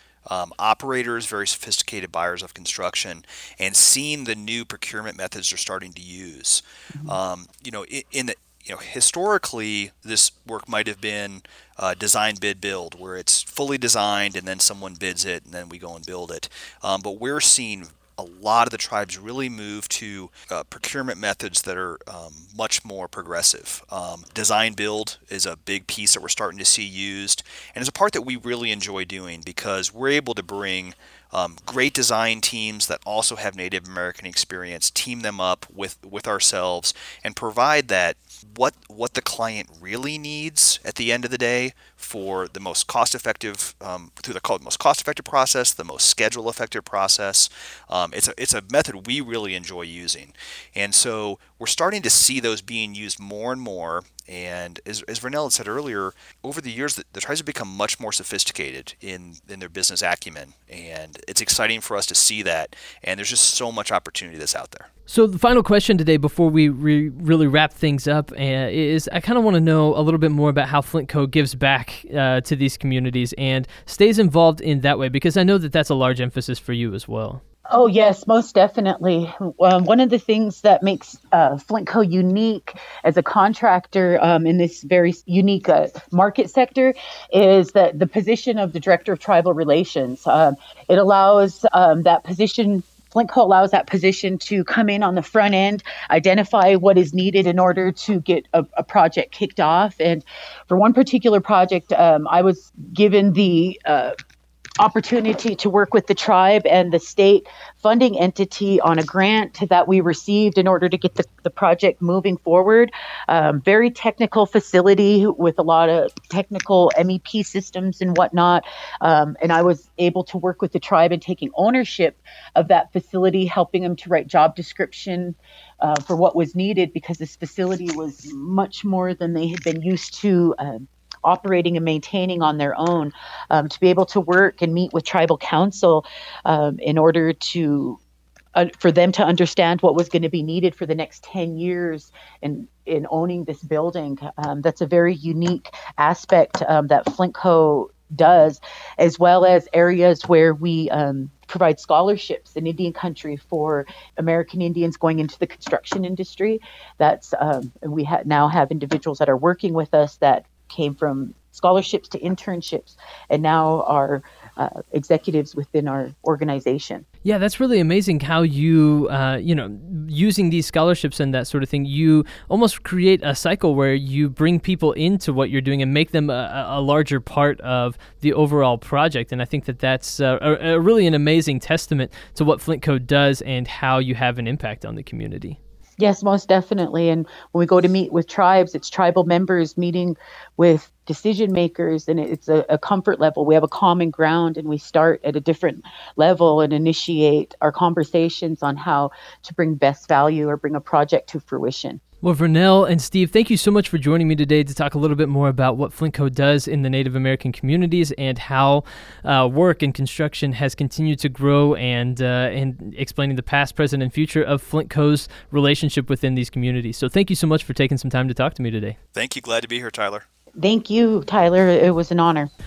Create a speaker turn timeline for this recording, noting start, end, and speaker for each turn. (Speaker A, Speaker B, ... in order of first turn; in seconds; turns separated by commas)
Speaker A: 0.3-64.9, Speaker B: 6.9-7.2, Speaker C: 65.1-77.4, Speaker B: 77.7-104.2, Speaker B: 104.8-138.0, Speaker B: 138.6-167.1, Speaker C: 167.2-185.6, Speaker B: 186.0-202.0, Speaker C: 202.2-219.0, Speaker A: 219.1-220.2, Speaker B: 220.6-222.5